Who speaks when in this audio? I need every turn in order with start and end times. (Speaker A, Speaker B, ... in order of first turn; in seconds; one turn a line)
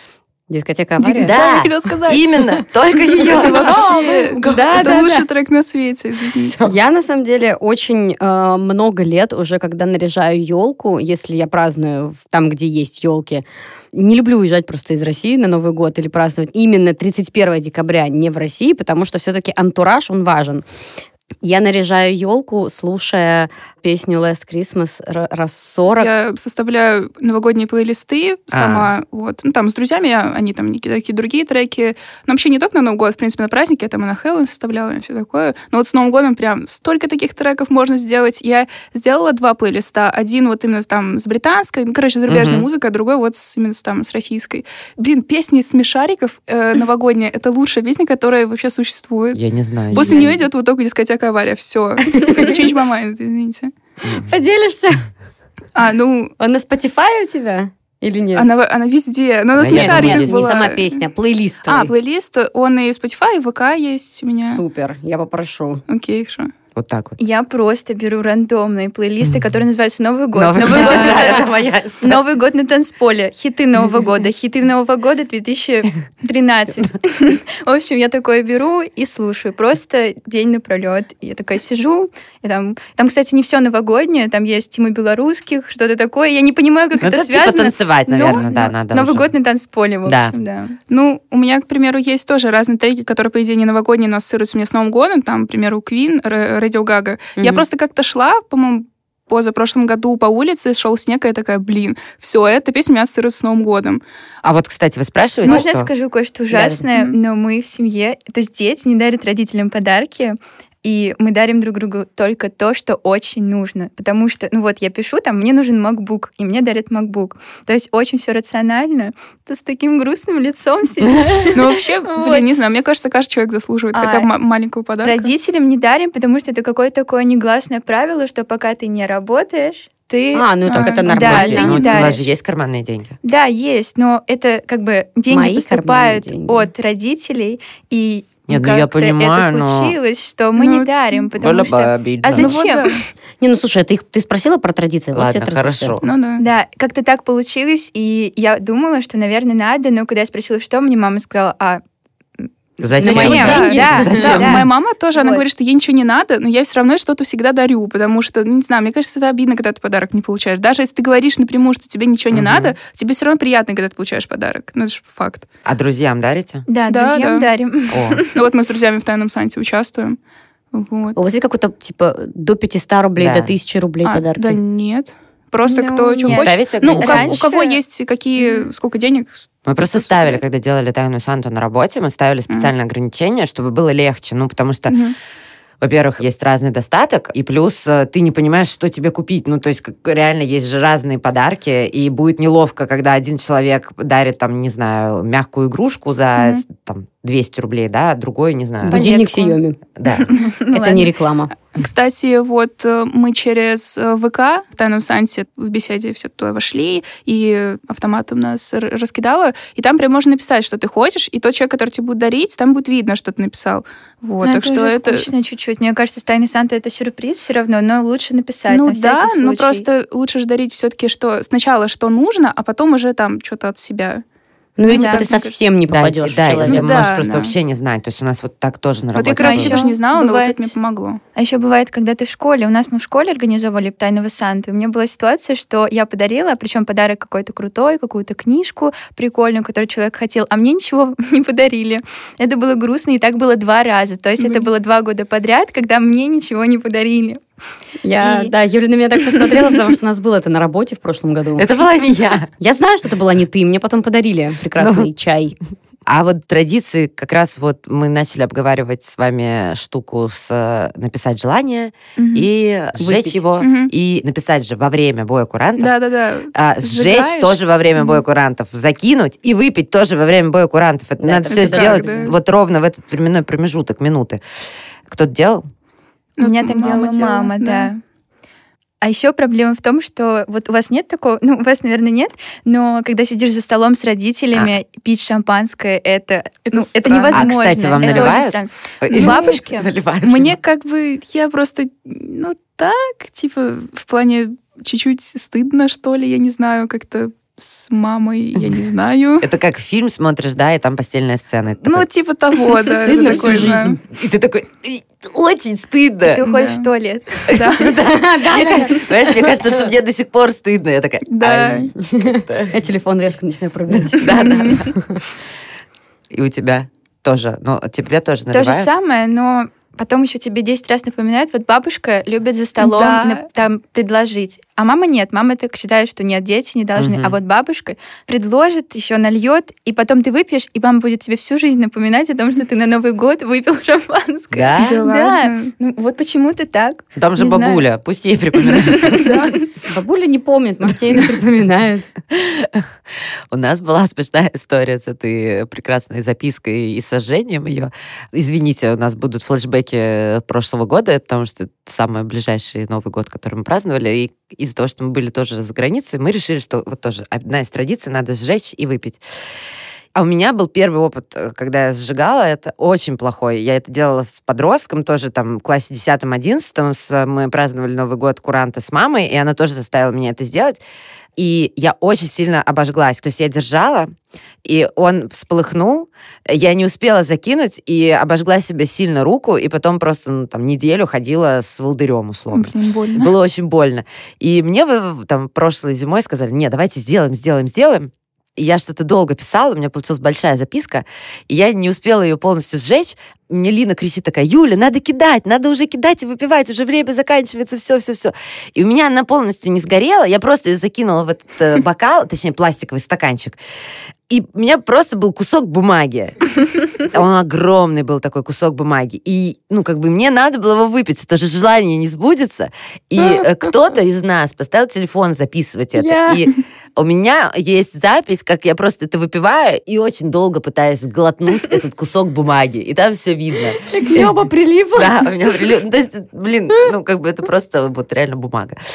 Speaker A: 0.5-1.7
Speaker B: 1.0-5.0
Speaker C: 1.0-2.3
Speaker C: 3.1-6.6
Speaker A: 3.1-5.3
Speaker A: 6.4-20.6
Speaker A: 21.4-26.1
Speaker C: 25.9-53.7
Speaker B: 28.5-28.9
Speaker B: 42.3-42.7
Speaker B: 49.3-50.3
Speaker A: 49.9-50.4
Speaker A: 52.1-52.6
Speaker A: 54.1-55.1
Speaker C: 55.7-56.3
Speaker A: 56.4-58.5
Speaker C: 58.3-61.0
Speaker B: 59.5-60.5
Speaker A: 59.6-61.9
Speaker C: 61.6-64.6
Speaker A: 64.4-65.8
Speaker C: 65.9-66.5
Speaker B: 66.7-67.2
Speaker D: 67.2-71.5
Speaker B: 70.3-72.2
Speaker A: 70.6-71.3
Speaker D: 72.0-90.8
Speaker B: 87.0-89.3
Speaker B: 90.0-90.3
Speaker C: 90.9-104.0
Speaker A: 97.3-97.7
Speaker B: 104.4-105.9
Speaker D: 105.4-122.5
Speaker A: 106.5-106.8
Speaker C: 121.5-125.3
Speaker D: 123.9-124.3
Speaker D: 125.0-132.3
Speaker A: 130.3-132.1
Speaker C: 130.7-131.9
Speaker B: 131.1-133.2
Speaker D: 133.2-143.0
Speaker A: 135.3-136.7
Speaker B: 138.5-139.9
Speaker C: 140.6-141.2
Speaker B: 141.4-142.6
Speaker C: 142.3-143.0
Speaker A: 143.4-146.0
Speaker B: 145.1-146.0
Speaker C: 146.0-146.4
Speaker D: 146.4-151.8
Speaker D: 152.4-155.4
Speaker B: 152.8-154.7
Speaker C: 153.0-165.4
Speaker A: 153.0-154.5
Speaker B: 162.3-162.8
Speaker B: 165.6-166.7
Speaker D: 166.7-168.3
Speaker C: 166.9-167.5
Speaker B: 167.9-168.2
Speaker C: 168.3-170.2
Speaker C: 170.7-171.2
Speaker A: 171.2-174.6
Speaker B: 173.2-173.5
Speaker C: 174.0-180.4
Speaker D: 175.6-177.8
Speaker B: 176.2-177.4
Speaker A: 177.0-177.4
Speaker D: 178.4-178.7
Speaker B: 179.7-185.0
Speaker C: 184.9-185.1
Speaker B: 185.8-199.1
Speaker C: 196.4-196.6
Speaker A: 198.8-199.8
Speaker D: 198.9-199.6
Speaker B: 199.9-200.4
Speaker D: 200.3-201.1
Speaker A: 200.7-201.5
Speaker C: 201.7-215.3
Speaker D: 214.4-219.8
Speaker C: 218.7-224.2
Speaker A: 224.8-227.1
Speaker C: 224.9-225.6
Speaker D: 224.9-225.3
Speaker B: 225.9-229.8
Speaker C: 226.6-227.5
Speaker C: 229.1-231.2
Speaker D: 229.4-230.7
Speaker D: 231.3-247.4
Speaker C: 244.4-244.7
Speaker A: 248.0-251.7
Speaker D: 248.2-248.5
Speaker B: 251.6-252.5
Speaker A: 252.6-255.6
Speaker B: 254.8-255.1
Speaker B: 256.1-265.9
Speaker A: 263.0-263.4
Speaker C: 263.6-263.9
Speaker C: 265.8-268.2
Speaker B: 266.5-274.4
Speaker A: 271.2-272.3
Speaker C: 271.4-272.3
Speaker B: 275.1-275.6
Speaker C: 276.4-277.9
Speaker D: 276.4-278.0
Speaker D: 279.0-289.9
Speaker C: 286.7-288.4
Speaker B: 287.3-290.6
Speaker C: 289.1-289.6
Speaker C: 290.2-299.4
Speaker B: 299.4-302.1
Speaker C: 301.8-304.0
Speaker A: 303.0-304.0
Speaker B: 303.2-306.4
Speaker D: 306.2-307.6
Speaker C: 306.4-306.9
Speaker B: 307.5-312.8
Speaker C: 307.5-307.9
Speaker A: 308.0-309.8
Speaker C: 311.3-311.9
Speaker A: 312.0-315.2
Speaker B: 313.9-314.9
Speaker C: 314.5-314.8
Speaker B: 316.3-318.9
Speaker D: 318.5-337.8
Speaker C: 322.8-323.4
Speaker B: 326.9-327.4
Speaker B: 334.5-335.0
Speaker C: 334.8-335.7
Speaker B: 337.1-339.4
Speaker D: 338.7-339.6
Speaker A: 339.8-342.1
Speaker B: 342.3-342.8
Speaker B: 343.5-359.2
Speaker B: 360.1-370.8
Speaker B: 371.4-374.1
Speaker B: 374.6-403.6
Speaker C: 382.5-383.3
Speaker B: 404.3-424.4
Speaker A: 415.9-416.4
Speaker A: 423.9-425.6
Speaker B: 424.9-428.8